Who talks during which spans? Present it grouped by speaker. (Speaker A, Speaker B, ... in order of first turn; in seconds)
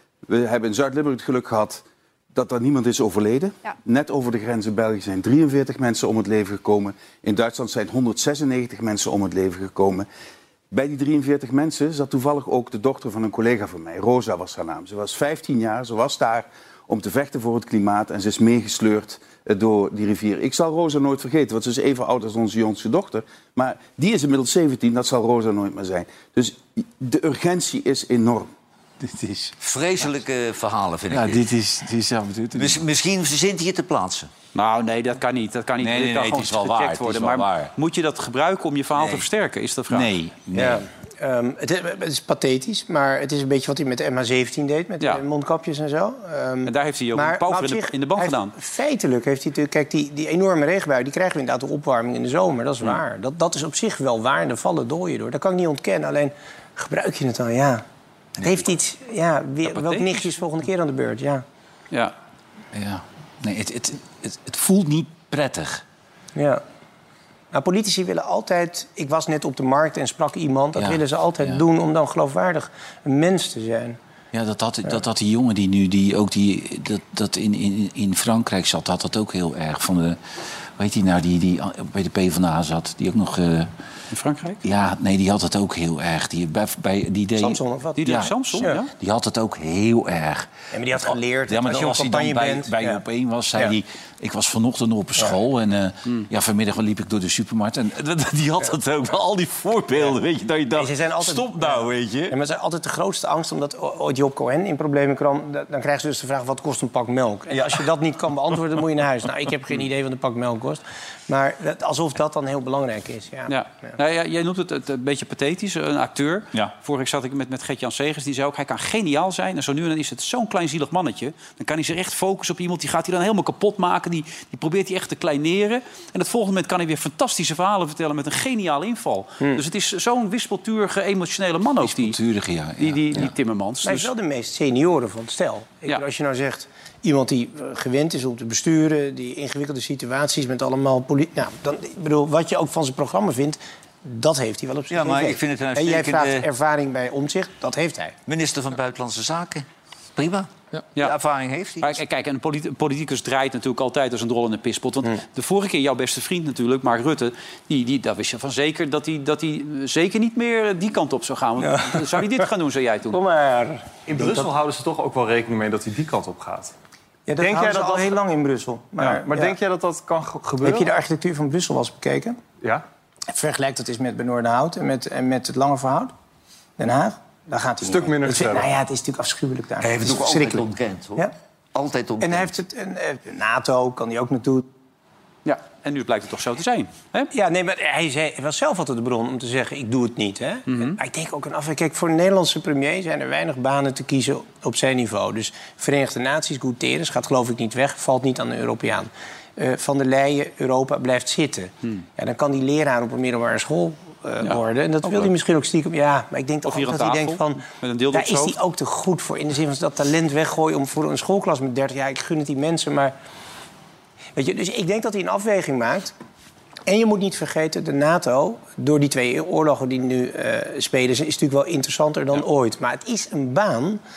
Speaker A: 0.3-10.1, 10.7-28.5
Speaker B: 29.0-29.5, 31.1-32.8, 35.8-37.7, 39.9-40.8, 62.7-65.8, 70.8-71.6, 74.3-80.2, 80.8-83.7, 84.6-102.3, 131.8-133.3
Speaker C: 29.6-31.4, 32.5-34.3, 144.9-146.5, 148.3-149.6, 150.2-152.0, 179.8-182.5
Speaker D: 34.5-40.1, 46.6-48.5, 59.7-60.3, 84.1-84.6, 88.0-88.9, 113.5-132.2, 132.8-134.1, 151.8-163.2, 185.4-187.3, 190.7-191.0, 204.4-205.3, 206.6-208.6
Speaker E: 40.5-57.8, 58.4-61.4, 66.3-66.6, 67.5-74.0, 87.4-88.8, 90.7-93.0, 100.7-113.9, 133.8-148.1, 161.6-162.3, 163.1-164.5, 167.3-169.6, 170.6-172.4, 173.3-176.1, 176.8-181.3, 182.2-184.7, 187.3-213.1, 214.3-216.1, 216.8-224.0
Speaker F: 164.1-166.7, 167.3-168.2, 169.0-170.9, 177.8-178.8